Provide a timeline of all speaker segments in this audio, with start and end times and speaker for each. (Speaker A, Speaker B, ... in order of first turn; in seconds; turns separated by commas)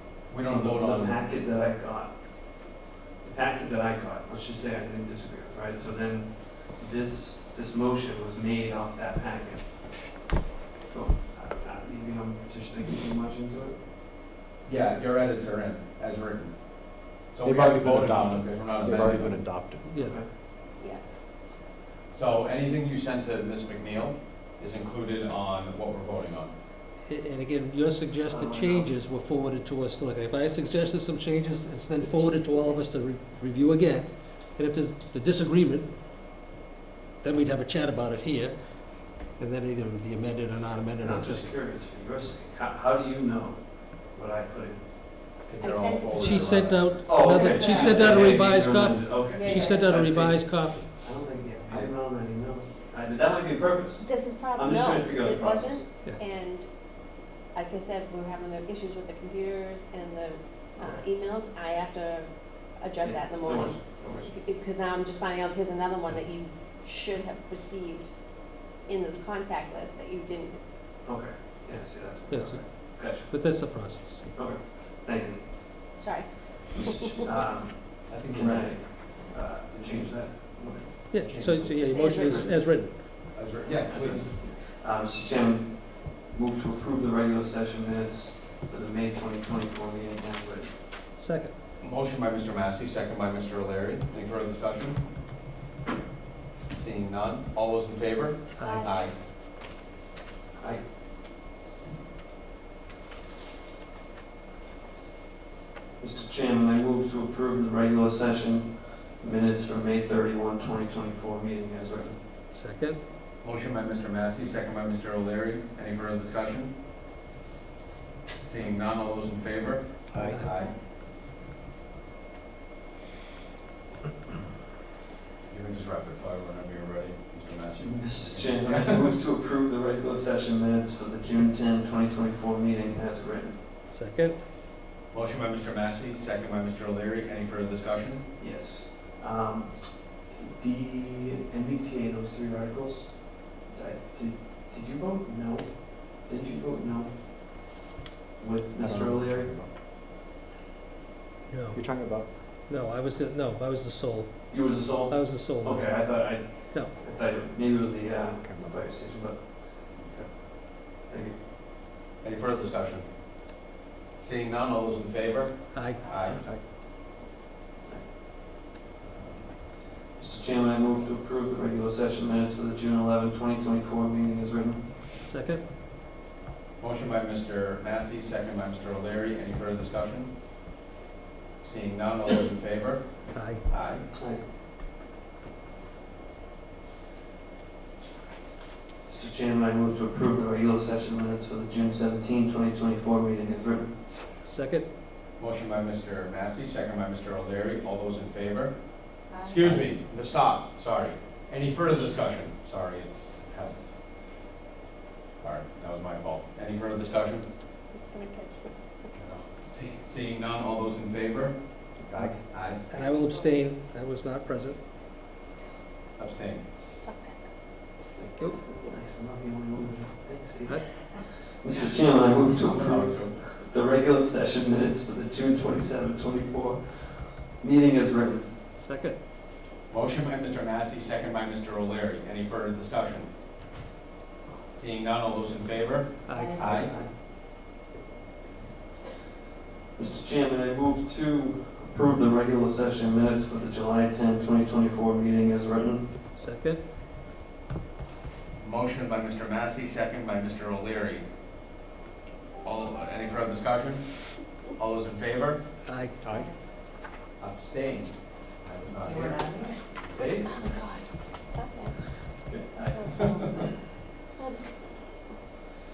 Speaker A: 0.3-1.2, Speaker B: 0.4-10.1, Speaker B: 10.8-13.9, Speaker A: 14.6-19.5, Speaker C: 17.4-19.9, Speaker B: 19.9-20.3, Speaker D: 19.9-20.1, Speaker E: 20.8-21.1, Speaker A: 22.1-26.5, Speaker D: 27.1-35.9, Speaker B: 28.2-28.9, Speaker E: 32.2-32.7, Speaker D: 37.2-41.5, Speaker B: 41.0-44.9, Speaker A: 45.4-47.3, Speaker E: 45.6-48.4, Speaker D: 46.1-50.9, Speaker B: 47.0-55.9, Speaker E: 49.3-50.0, Speaker E: 54.0-70.7, Speaker B: 60.8-61.0, Speaker B: 63.0-64.3, Speaker B: 71.0-76.0, Speaker D: 72.3-74.3, Speaker E: 75.9-77.1, Speaker B: 76.7-82.5, Speaker A: 78.1-78.7, Speaker D: 81.1-83.0, Speaker A: 81.2-81.6, Speaker E: 81.6-82.6, Speaker A: 83.3-84.5, Speaker B: 83.6-90.8, Speaker D: 91.1-91.5, Speaker A: 91.8-95.1, Speaker A: 96.7-99.1, Speaker E: 98.6-98.9, Speaker D: 98.6-98.9, Speaker B: 100.5-100.9, Speaker B: 106.0-112.2, Speaker D: 112.5-113.0, Speaker A: 113.4-116.7, Speaker A: 118.4-120.7, Speaker C: 120.1-120.7, Speaker D: 120.2-120.6, Speaker A: 125.5-129.1, Speaker B: 127.8-133.6, Speaker D: 133.9-134.4, Speaker A: 135.1-138.3, Speaker B: 138.4-147.8, Speaker B: 148.4-149.5, Speaker C: 148.8-149.7, Speaker D: 151.5-156.9, Speaker C: 151.7-152.3, Speaker B: 154.5-161.4, Speaker C: 158.4-158.8, Speaker A: 162.2-163.1, Speaker A: 164.2-166.4, Speaker D: 165.7-166.0, Speaker C: 166.0-166.6, Speaker A: 169.0-169.6, Speaker B: 170.1-174.9, Speaker D: 175.2-175.7, Speaker A: 176.8-180.3, Speaker A: 181.6-184.1, Speaker D: 183.3-183.6, Speaker B: 184.1-184.4, Speaker B: 189.1-194.0, Speaker D: 194.4-194.9, Speaker A: 195.4-204.0, Speaker E: 199.3-199.9, Speaker D: 201.7-202.0, Speaker A: 205.4-207.4, Speaker E: 207.9-209.1, Speaker A: 209.1-212.8, Speaker C: 212.0-212.4, Speaker D: 212.9-214.8, Speaker E: 212.9-213.5, Speaker A: 216.2-216.7, Speaker E: 217.0-217.5, Speaker B: 218.6-228.6, Speaker D: 220.7-221.1, Speaker A: 222.3-223.5, Speaker D: 228.8-229.2, Speaker A: 229.9-233.3, Speaker A: 234.7-236.9, Speaker D: 236.2-237.0, Speaker E: 236.3-236.8, Speaker B: 236.6-237.1, Speaker B: 239.9-246.1, Speaker D: 246.3-246.8, Speaker A: 248.6-251.3, Speaker A: 252.6-255.7, Speaker D: 255.8-256.2, Speaker E: 256.2-256.6, Speaker C: 256.2-256.5, Speaker A: 257.4-260.8, Speaker E: 259.1-259.8, Speaker E: 260.4-262.1, Speaker A: 262.5-263.6, Speaker E: 262.9-263.7, Speaker E: 264.4-265.4